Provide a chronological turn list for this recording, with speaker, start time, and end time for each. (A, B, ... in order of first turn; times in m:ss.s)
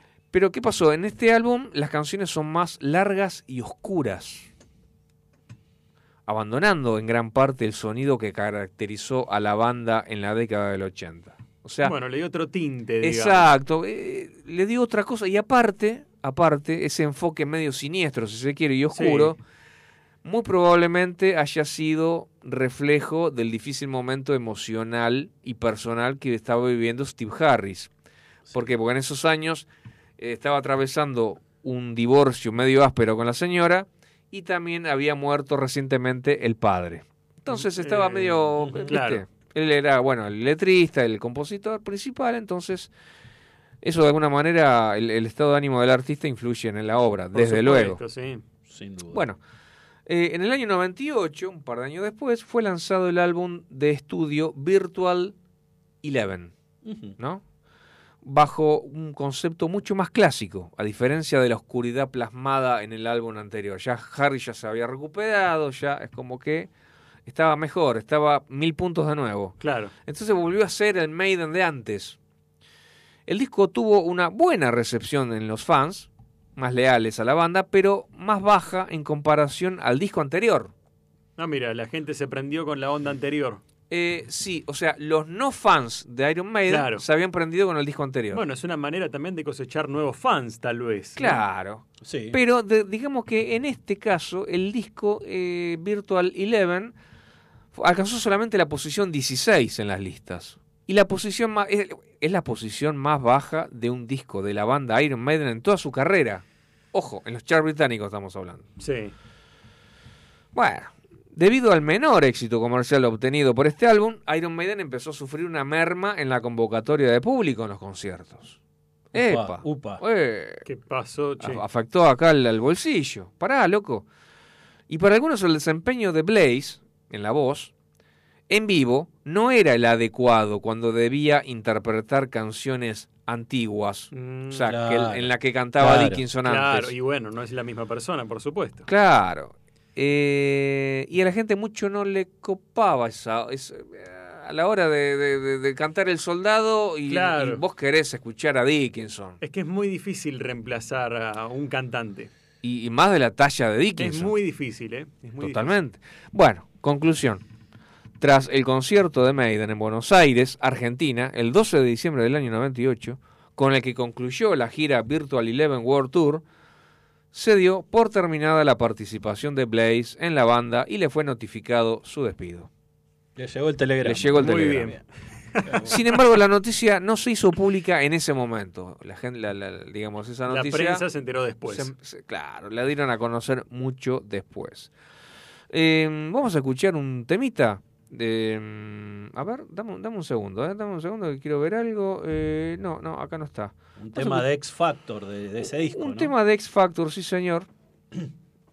0:00.3-0:04.5 A
0:06.3-0:12.0 A
0:11.8-0:13.5 B
0:13.0-0:19.4 A
0:18.9-0:19.3 B
0:20.2-0:27.9 A
0:28.5-0:29.7 A
0:30.2-0:42.9 A
0:37.7-0:39.2 B
0:38.6-0:39.0 C
0:43.8-0:48.0 A
0:47.3-0:48.4 B
0:48.7-0:49.2 C
0:49.1-0:49.4 A
0:50.1-0:55.4 A
0:56.0-0:56.5 A
0:56.8-0:57.2 C
0:57.2-0:57.4 A
0:58.2-1:06.7 A
1:07.3-1:12.2 A
1:09.6-1:09.9 B
1:13.3-1:20.7 A
1:21.4-1:23.6 B
1:23.9-1:28.4 A
1:26.7-1:27.0 B
1:28.3-1:31.4 B
1:31.2-1:36.9 A
1:32.0-1:32.4 C
1:37.7-1:48.7 A
1:48.8-1:49.1 B
1:50.6-1:58.6 A
1:59.1-2:00.0 C
1:59.1-2:00.7 A
2:00.7-2:01.6 B
2:01.4-2:04.1 A
2:04.9-2:07.7 A
2:08.5-2:16.9 A
2:14.1-2:14.7 B
2:14.6-2:16.2 C
2:16.4-2:18.8 B
2:18.9-2:29.4 A
2:27.1-2:27.6 B
2:29.4-2:32.3 B
2:32.6-2:34.3 A
2:34.0-2:35.8 B
2:35.4-2:37.4 A
2:38.2-2:46.4 A
2:47.3-2:52.7 A
2:53.4-2:55.0 C
2:54.0-2:55.0 A
2:54.4-2:55.0 B
2:55.6-2:56.0 C
2:55.9-3:01.0 A
3:00.5-3:01.9 B
3:01.7-3:04.9 A
3:05.7-3:14.4 A
3:14.0-3:16.3 C
3:15.9-3:17.7 A